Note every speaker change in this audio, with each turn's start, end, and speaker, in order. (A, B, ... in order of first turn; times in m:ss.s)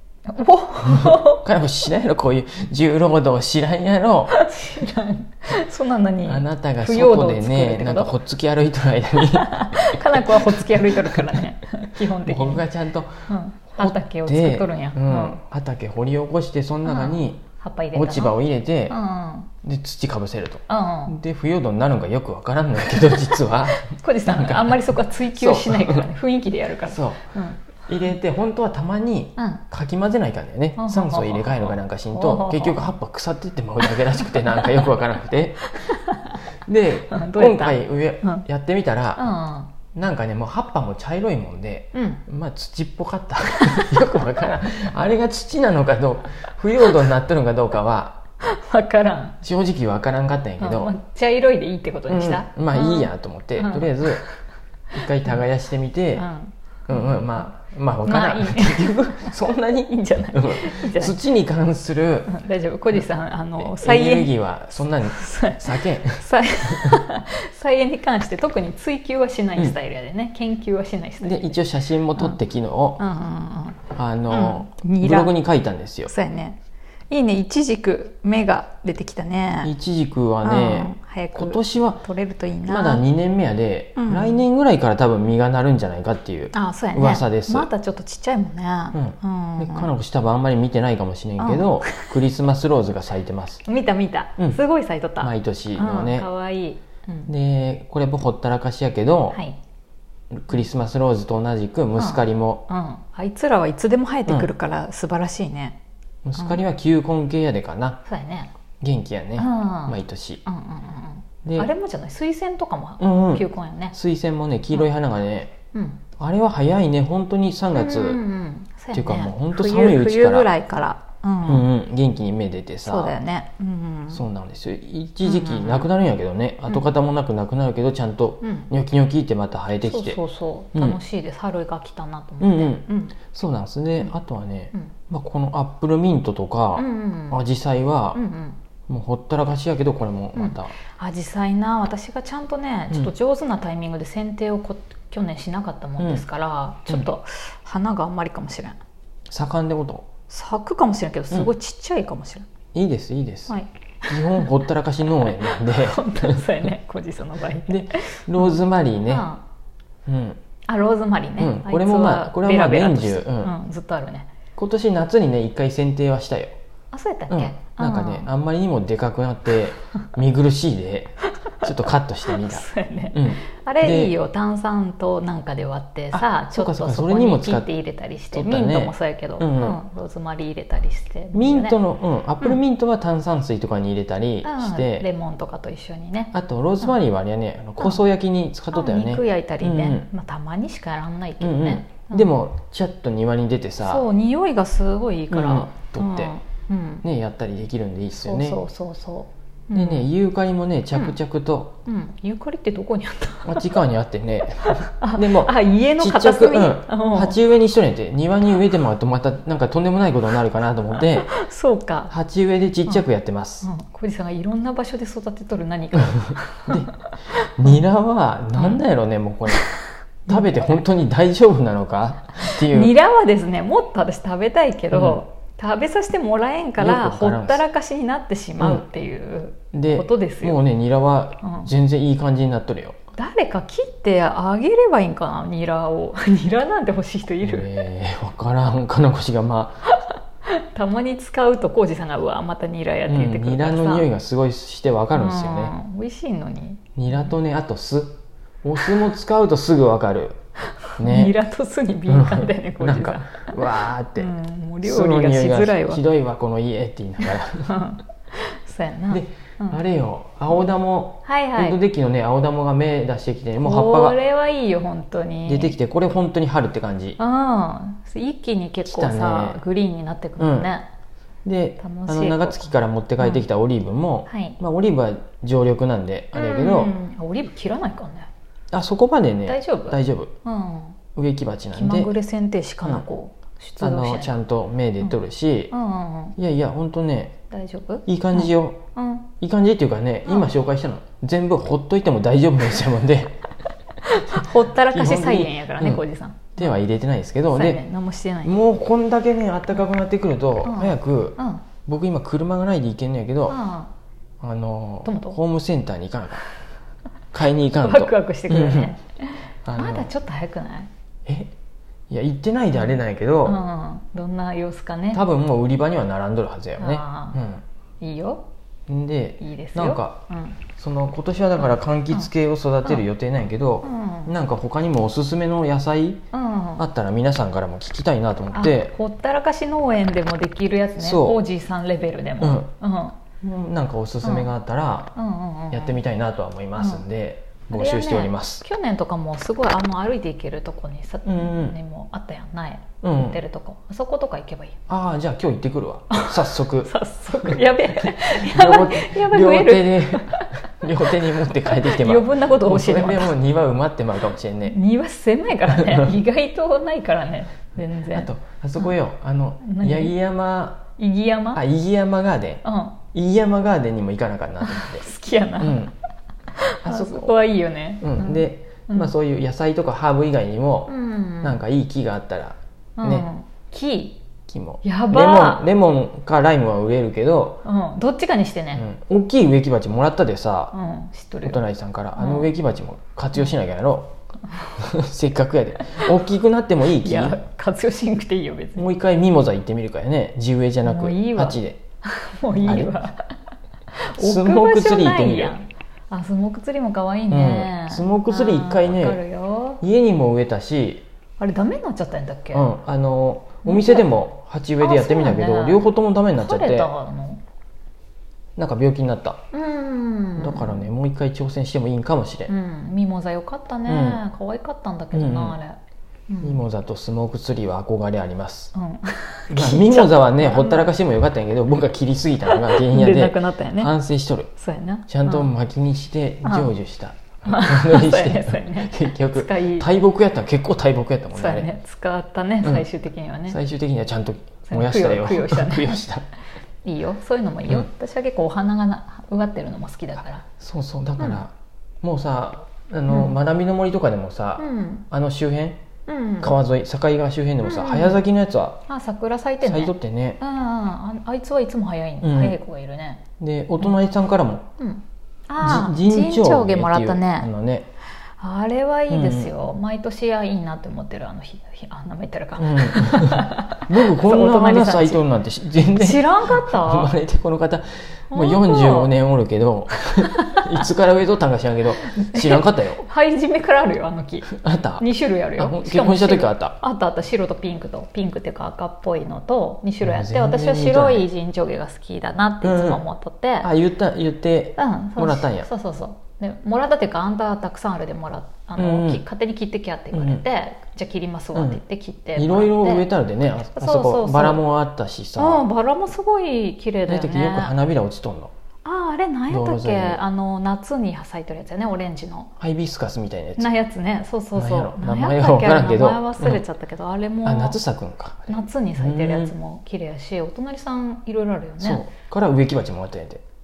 0:00.3-0:01.4 A
0:00.8-0:04.4 B
0:04.3-0:08.1 A
0:06.2-0:11.4 B
0:09.2-0:12.6 A
0:12.2-0:13.1 B
0:13.3-0:15.4 A
0:13.8-0:17.4 B
0:16.8-0:18.4 A
0:17.9-0:19.0 B
0:18.9-0:19.5 A
0:19.6-0:26.0 B
0:20.7-0:21.2 A
0:22.9-0:27.6 A
0:26.9-0:27.3 B
0:27.8-0:35.7 B
0:29.4-0:29.6 A
0:30.8-0:32.9 A
0:34.2-0:34.8 A
0:35.7-0:36.4 A
0:36.6-0:39.3 B
0:37.1-0:38.4 A
0:39.2-0:39.7 A
0:39.9-0:48.2 B
0:41.9-0:42.2 A
0:43.5-0:44.2 A
0:48.4-0:49.4 A
0:49.4-0:50.9 B
0:50.6-0:54.3 A
0:52.1-0:54.2 B
0:54.9-0:56.3 B
0:56.2-0:57.4 A
0:56.9-1:02.4 B
0:58.0-1:01.1 A
1:02.3-1:11.6 A
1:02.9-1:07.0 B
1:11.2-1:13.0 B
1:13.0-1:15.3 A
1:13.9-1:16.1 B
1:16.1-1:16.6 A
1:17.1-1:19.7 A
1:19.6-1:22.0 B
1:20.4-1:23.0 A
1:22.6-1:27.7 B
1:24.0-1:24.4 A
1:26.5-1:29.9 A
1:28.9-1:33.6 B
1:31.4-1:32.1 A
1:33.6-1:37.3 A
1:35.2-1:36.3 B
1:37.3-1:39.4 B
1:39.3-1:39.6 A
1:40.3-1:42.6 B
1:42.0-1:45.8 A
1:46.2-1:48.0 B
1:46.4-1:46.6 A
1:48.0-1:48.5 A
1:48.8-1:50.4 B
1:49.4-1:54.0 A
1:51.4-1:51.7 B
1:53.0-1:55.5 B
1:55.7-1:56.0 A
1:56.2-1:58.2 B
1:57.7-2:01.6 A
1:58.9-2:00.5 B
2:01.4-2:03.2 B
2:02.8-2:04.2 A
2:04.1-2:10.2 B
2:05.2-2:05.9 A
2:08.4-2:08.7 A
2:09.8-2:13.2 A
2:10.7-2:11.0 B
2:12.4-2:18.2 B
2:16.7-2:17.4 A
2:18.1-2:18.6 A
2:18.9-2:20.7 B
2:20.3-2:28.8 A
2:26.0-2:26.2 B
2:29.3-2:30.1 B
2:30.3-2:32.5 A
2:32.7-2:33.5 B
2:33.5-2:34.5 A
2:34.1-2:36.5 B
2:35.2-2:39.4 A
2:37.7-2:39.3 B
2:40.0-2:40.4 B
2:40.7-2:44.3 A
2:41.4-2:43.5 B
2:44.6-2:46.6 B
2:46.9-2:48.3 A
2:47.3-2:54.1 B
2:52.3-3:01.8 A
2:56.1-2:57.7 B
2:58.3-2:59.8 B
3:01.3-3:05.1 B
3:04.4-3:07.0 A
3:06.3-3:10.1 B
3:08.7-3:12.3 A
3:11.4-3:14.1 B
3:13.8-3:17.0 A
3:15.3-3:16.3 B
3:17.0-3:18.6 B
3:18.2-3:20.1 A
3:19.7-3:21.8 B
3:21.8-3:23.7 A
3:23.4-3:31.3 B
3:24.6-3:27.4 A
3:31.0-3:32.1 A
3:32.1-3:33.7 B
3:33.6-3:37.8 A
3:36.7-3:39.7 B
3:38.6-3:38.8 A
3:40.3-3:42.9 B
3:40.3-3:40.6 A
3:42.4-3:50.6 A
3:44.9-3:45.2 B
3:46.8-3:47.6 B
3:48.6-3:48.8 B
3:49.7-3:53.0 B
3:51.4-3:51.7 A
3:53.2-3:57.7 A
3:57.4-3:59.8 B
3:59.9-4:04.1 A
4:03.0-4:05.7 B
4:05.1-4:07.3 A
4:07.0-4:10.4 B
4:10.9-4:16.0 A
4:11.0-4:11.4 B
4:12.1-4:17.7 B
4:17.2-4:19.8 A
4:19.1-4:24.2 B
4:21.2-4:21.8 A
4:23.6-4:25.8 A
4:25.4-4:27.2 B
4:27.2-4:30.9 A
4:28.8-4:29.6 B
4:30.4-4:30.7 B
4:31.4-4:37.0 B
4:31.8-4:33.4 A
4:34.3-4:34.6 A
4:36.3-4:38.3 A
4:38.7-4:40.3 B
4:39.4-4:41.0 A
4:41.2-4:42.1 B
4:41.7-4:44.3 A
4:43.8-4:45.7 B
4:45.7-4:46.4 A
4:46.4-4:47.4 B
4:47.5-4:49.3 A
4:48.0-4:48.8 B
4:49.4-4:53.4 B
4:50.2-4:50.5 A
4:54.0-4:56.8 A
4:54.3-4:56.0 B
4:56.5-4:57.8 B
4:57.5-4:58.6 A
4:58.4-5:03.6 B
5:00.6-5:01.6 A
5:03.5-5:03.9 A
5:04.4-5:06.4 B
5:05.0-5:05.4 A
5:07.3-5:08.9 B
5:07.7-5:10.9 A
5:09.6-5:10.1 B
5:11.2-5:11.5 B
5:12.1-5:13.6 B
5:12.7-5:15.2 A
5:15.1-5:17.6 B
5:16.8-5:17.4 A
5:18.0-5:18.4 A
5:18.9-5:20.2 B
5:19.4-5:20.6 A
5:20.8-5:26.2 B
5:21.6-5:22.3 A
5:23.8-5:24.3 A
5:26.3-5:26.8 A
5:26.8-5:28.9 B
5:28.5-5:33.2 A
5:31.0-5:31.4 B
5:32.4-5:32.7 B
5:33.4-5:35.1 B
5:34.2-5:34.5 A
5:35.2-5:36.0 A
5:35.7-5:38.6 B
5:36.8-5:37.0 A
5:37.7-5:44.8 A
5:41.2-5:41.8 B
5:43.0-5:43.4 B
5:44.9-5:54.8 B
5:46.1-5:50.5 A
5:51.1-5:53.3 A
5:54.6-5:58.9 A
5:55.6-5:56.1 B
5:58.1-6:00.9 B
5:59.6-6:00.1 A
6:01.0-6:01.6 A
6:01.5-6:02.6 B
6:02.6-6:03.0 A
6:03.1-6:05.1 B
6:04.6-6:05.9 A
6:05.6-6:05.9 B
6:06.5-6:09.1 A
6:06.8-6:07.4 B
6:08.0-6:13.3 B
6:10.9-6:11.6 A
6:13.0-6:14.2 A
6:14.5-6:17.6 B
6:14.8-6:15.6 A
6:17.6-6:18.8 A
6:18.8-6:20.7 B
6:20.7-6:21.6 A
6:21.4-6:24.1 B
6:22.2-6:22.5 A
6:24.8-6:27.4 B
6:27.0-6:28.8 A
6:28.8-6:31.8 B
6:30.8-6:33.2 A
6:32.6-6:33.0 B
6:34.0-6:39.8 A
6:34.2-6:35.6 B
6:37.3-6:39.2 B
6:39.8-6:41.0 B
6:41.4-6:42.6 A
6:42.5-6:46.9 B
6:43.6-6:44.0 A
6:44.8-6:47.4 A
6:48.6-6:49.4 B
6:49.5-6:50.9 A
6:50.4-6:52.5 B
6:52.5-6:56.6 A
6:53.8-6:54.2 B
6:55.1-6:55.6 B
6:56.4-6:58.7 B
6:58.7-7:00.9 A
6:59.5-7:04.5 B
7:02.5-7:03.9 A
7:04.6-7:05.5 A
7:05.1-7:11.7 B
7:06.4-7:06.7 A
7:07.4-7:09.9 A
7:11.3-7:13.6 A
7:13.5-7:16.2 B
7:14.6-7:16.0 A
7:16.8-7:20.4 A
7:20.4-7:25.8 B
7:23.1-7:23.4 A
7:24.6-7:25.0 A
7:26.1-7:26.5 A
7:26.4-7:28.8 B
7:27.6-7:28.2 A
7:28.9-7:33.2 A
7:29.6-7:30.4 B
7:32.2-7:32.6 B
7:33.4-7:34.6 B
7:34.8-7:37.5 A
7:35.6-7:37.8 B
7:38.4-7:45.2 A
7:39.1-7:39.5 B
7:42.6-7:53.0 B
7:45.9-7:47.1 A
7:48.3-7:49.1 A
7:52.1-8:03.7 A
7:54.4-7:56.8 B
8:00.0-8:01.3 B
8:02.6-8:03.0 B
8:03.6-8:05.7 B
8:04.8-8:13.1 A
8:08.8-8:09.2 B
8:10.1-8:10.4 B
8:11.5-8:11.8 B
8:12.4-8:15.6 B
8:13.6-8:14.6 A
8:15.4-8:17.8 A
8:17.0-8:18.5 B
8:18.8-8:22.5 A
8:19.5-8:20.2 B
8:22.6-8:23.7 B
8:23.6-8:27.8 A
8:24.6-8:26.6 B
8:27.4-8:29.5 B
8:28.5-8:32.0 A
8:31.8-8:33.4 B